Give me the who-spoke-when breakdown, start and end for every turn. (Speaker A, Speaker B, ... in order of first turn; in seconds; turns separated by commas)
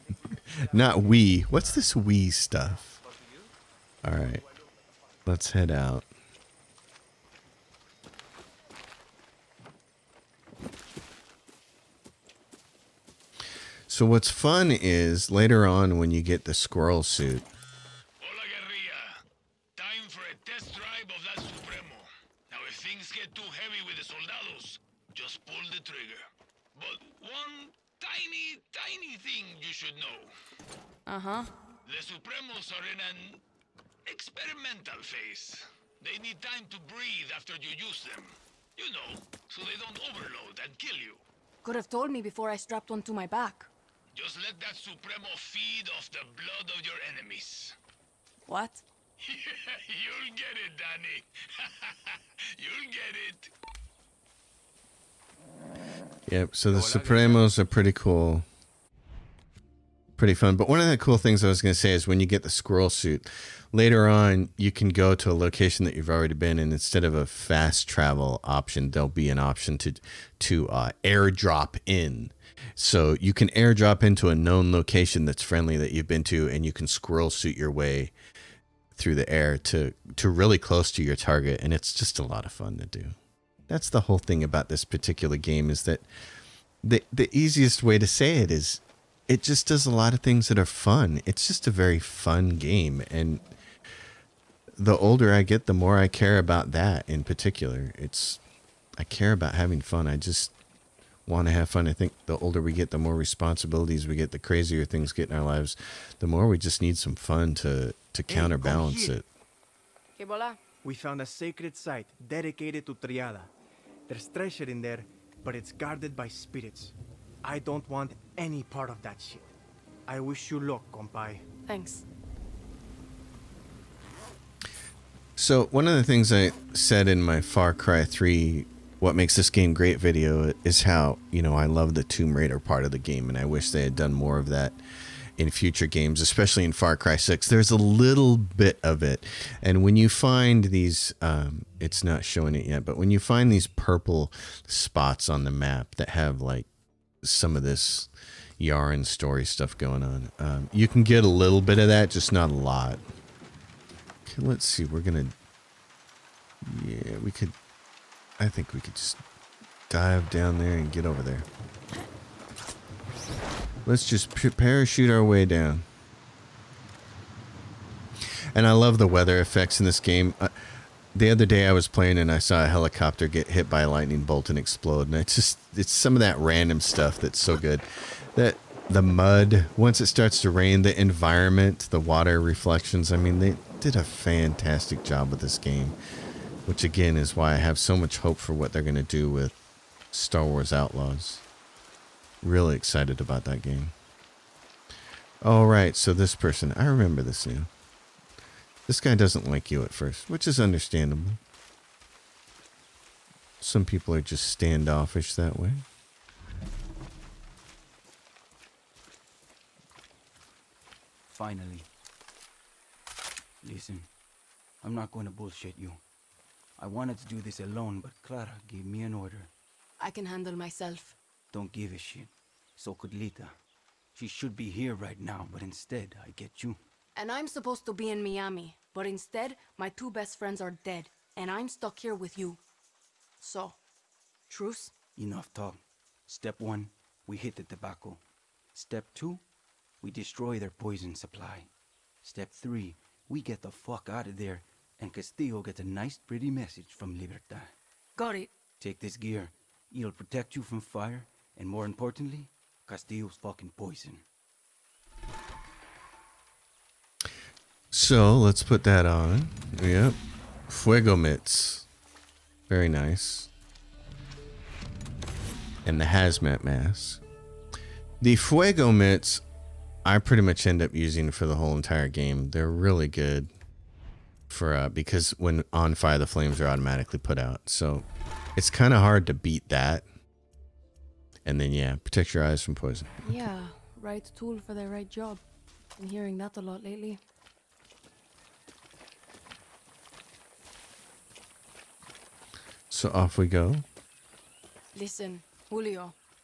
Speaker A: 0.5-3.0, Speaker A: 4.0-4.4, Speaker A: 5.2-6.0, Speaker A: 13.9-17.5, Speaker B: 18.2-19.2, Speaker B: 19.8-30.3, Speaker C: 31.1-31.5, Speaker B: 31.9-33.4, Speaker B: 34.0-41.2, Speaker C: 41.6-43.7, Speaker B: 44.1-47.8, Speaker C: 48.5-48.8, Speaker B: 49.2-53.5, Speaker A: 56.3-58.5, Speaker D: 56.7-57.4, Speaker A: 60.2-78.1, Speaker A: 78.9-83.2, Speaker A: 83.7-86.0, Speaker A: 86.8-93.4, Speaker A: 94.8-98.4, Speaker A: 99.0-100.5, Speaker A: 101.2-109.2, Speaker D: 108.3-109.2, Speaker C: 110.2-110.6, Speaker D: 110.8-113.5, Speaker D: 114.1-119.5, Speaker D: 120.0-121.5, Speaker C: 121.7-122.0, Speaker A: 125.4-134.8, Speaker A: 135.4-146.7, Speaker A: 147.2-153.0, Speaker A: 154.2-155.3, Speaker A: 156.6-157.5, Speaker A: 158.4-159.2, Speaker A: 159.9-161.5, Speaker A: 163.8-165.8, Speaker A: 168.5-170.6, Speaker A: 171.1-185.9, Speaker A: 186.7-189.6, Speaker A: 190.1-191.4, Speaker A: 192.4-193.9, Speaker A: 195.4-197.7, Speaker A: 198.9-201.4, Speaker A: 203.6-205.8, Speaker E: 211.3-211.9, Speaker E: 213.6-214.1, Speaker E: 214.8-216.0, Speaker E: 216.8-219.5, Speaker C: 220.0-221.2, Speaker E: 221.5-223.6, Speaker E: 224.1-226.8, Speaker C: 227.1-232.6, Speaker C: 233.4-233.8, Speaker C: 234.5-234.9, Speaker E: 235.2-238.2, Speaker E: 238.7-239.4, Speaker E: 240.0-241.7, Speaker E: 242.2-247.7, Speaker C: 248.2-248.5, Speaker E: 248.8-254.2, Speaker A: 257.9-261.9, Speaker A: 262.7-263.5, Speaker A: 265.8-267.2, Speaker A: 268.2-269.4, Speaker A: 270.0-273.5, Speaker A: 274.5-280.1, Speaker A: 281.4-283.4, Speaker C: 283.2-285.4, Speaker C: 286.0-287.2, Speaker A: 292.9-293.8, Speaker C: 294.9-296.1